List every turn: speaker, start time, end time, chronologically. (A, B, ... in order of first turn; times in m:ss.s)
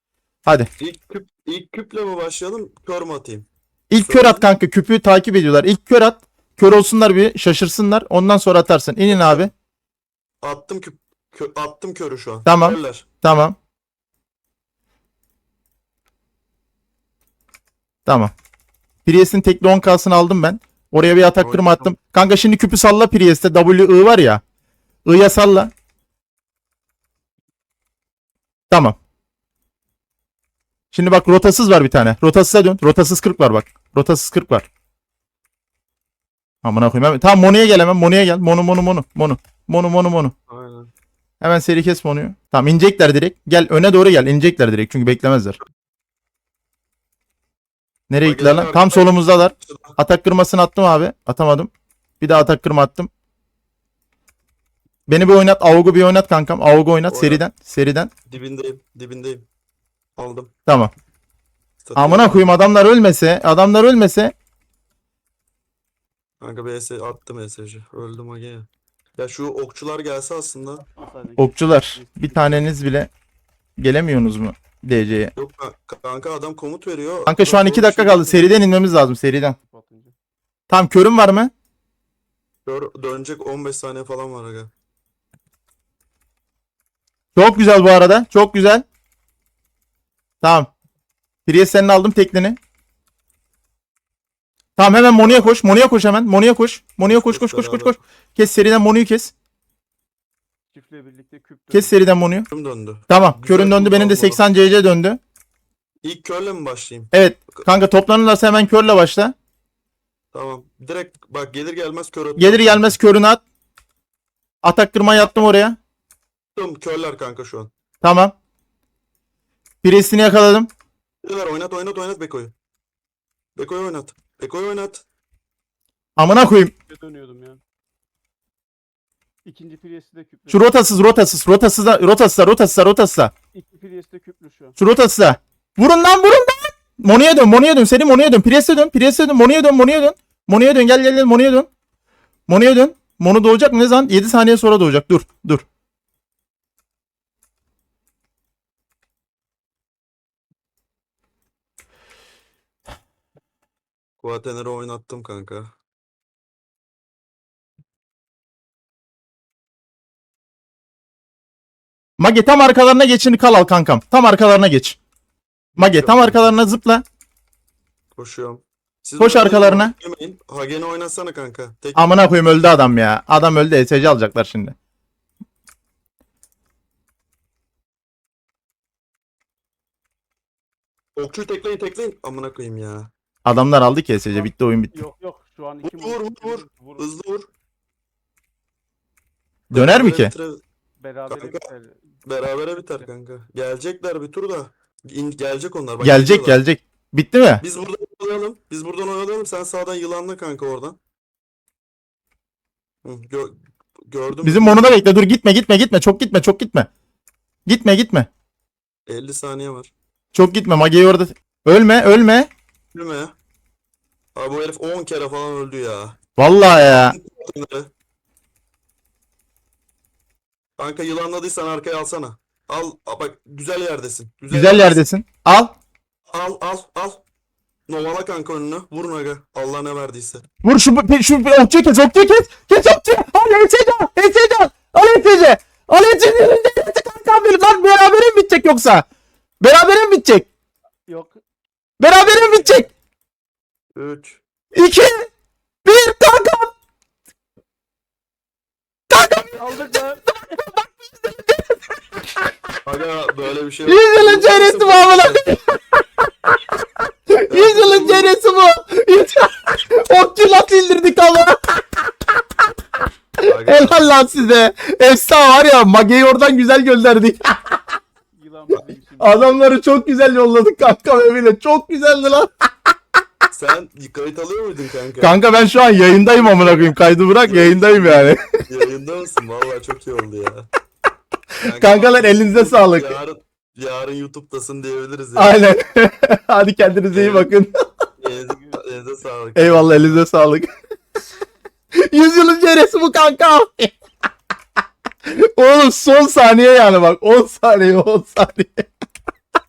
0:00.8-0:03.5 A
0:03.9-0:09.5 B
0:04.0-0:04.5 A
0:09.1-0:09.5 A
0:10.4-0:13.1 A
0:12.4-0:13.6 B
0:18.1-0:18.3 B
0:19.0-0:24.4 B
0:21.4-0:22.0 A
0:25.0-0:25.7 B
0:28.7-0:29.0 B
0:30.9-0:34.7 B
0:36.6-0:40.3 B
0:40.5-0:40.9 A
0:41.4-0:45.6 B
0:48.1-0:51.7 B
0:48.2-0:50.0 A
0:52.2-0:53.1 B
0:55.1-0:58.1 B
0:57.1-0:57.4 A
0:58.3-0:59.4 A
1:00.2-1:00.5 A
1:00.7-1:00.9 B
1:01.8-1:02.5 A
1:02.0-1:04.3 B
1:06.4-1:10.9 A
1:11.0-1:12.7 C
1:11.4-1:13.1 B
1:13.8-1:15.3 B
1:15.4-1:18.5 A
1:17.3-1:19.6 B
1:19.6-1:20.1 C
1:20.7-1:21.5 B
1:22.7-1:24.7 A
1:27.4-1:28.8 B
1:30.4-1:30.7 B
1:31.5-1:32.6 B
1:34.8-1:39.3 B
1:35.2-1:35.6 A
1:37.1-1:38.0 A
1:40.7-1:42.0 C
1:41.7-1:42.5 B
1:42.5-1:44.4 A
1:43.1-1:45.2 B
1:46.0-1:47.6 A
1:47.1-1:49.4 B
1:50.3-1:53.0 A
1:52.4-1:53.4 B
1:54.6-1:55.8 B
1:56.6-1:57.7 A
1:58.0-1:58.3 B
1:59.8-2:00.7 B
2:01.2-2:02.5 A
2:03.6-2:05.0 A
2:06.2-2:06.7 B
2:06.9-2:07.6 C
2:09.5-2:10.8 C
2:10.5-2:13.3 B
2:13.5-2:14.8 C
2:14.8-2:21.7 B
2:22.5-2:25.6 B
2:34.2-2:35.7 A
2:42.2-2:45.0 B
2:45.8-2:46.6 A
2:45.8-2:47.0 B
2:48.2-2:52.1 A
2:49.2-2:49.9 B
2:52.0-2:54.8 B
3:01.2-3:03.1 A
3:03.4-3:05.0 B
3:04.3-3:07.1 C
3:05.8-3:07.5 A
3:09.7-3:10.3 B
3:09.7-3:10.6 A
3:11.0-3:12.0 C
3:11.3-3:11.7 A
3:12.2-3:16.6 A
3:16.0-3:17.6 B
3:17.6-3:21.0 A
3:23.0-3:25.0 A
3:24.4-3:26.9 B
3:27.7-3:28.3 B
3:29.1-3:29.9 A
3:30.3-3:32.5 B
3:32.9-3:33.3 A
3:34.4-3:36.2 A
3:36.4-3:37.2 B
3:37.0-3:37.9 A
3:40.8-3:45.0 A
3:44.5-3:45.8 B
3:46.3-3:47.2 A
3:47.9-3:50.4 A
3:50.6-3:59.0 B
3:59.6-4:00.5 B
4:01.1-4:01.4 C
4:02.0-4:02.9 B
4:02.2-4:02.9 C
4:04.0-4:04.4 A
4:04.8-4:05.3 B
4:05.8-4:06.7 B
4:09.1-4:09.6 B
4:09.6-4:10.4 C
4:12.8-4:15.4 A
4:13.9-4:16.0 B
4:17.3-4:22.3 B
4:17.5-4:18.3 A
4:23.4-4:27.8 B
4:23.4-4:24.4 A
4:28.4-4:29.5 C
4:29.2-4:32.5 B
4:33.5-4:35.4 A
4:35.2-4:38.5 B
4:36.3-4:40.7 A
4:41.6-4:45.6 A
4:41.7-4:43.2 B
4:45.4-4:47.7 B
4:47.1-4:47.5 A
4:48.2-4:50.3 A
4:49.6-4:50.7 B
4:52.0-4:53.9 B
4:55.2-4:58.9 B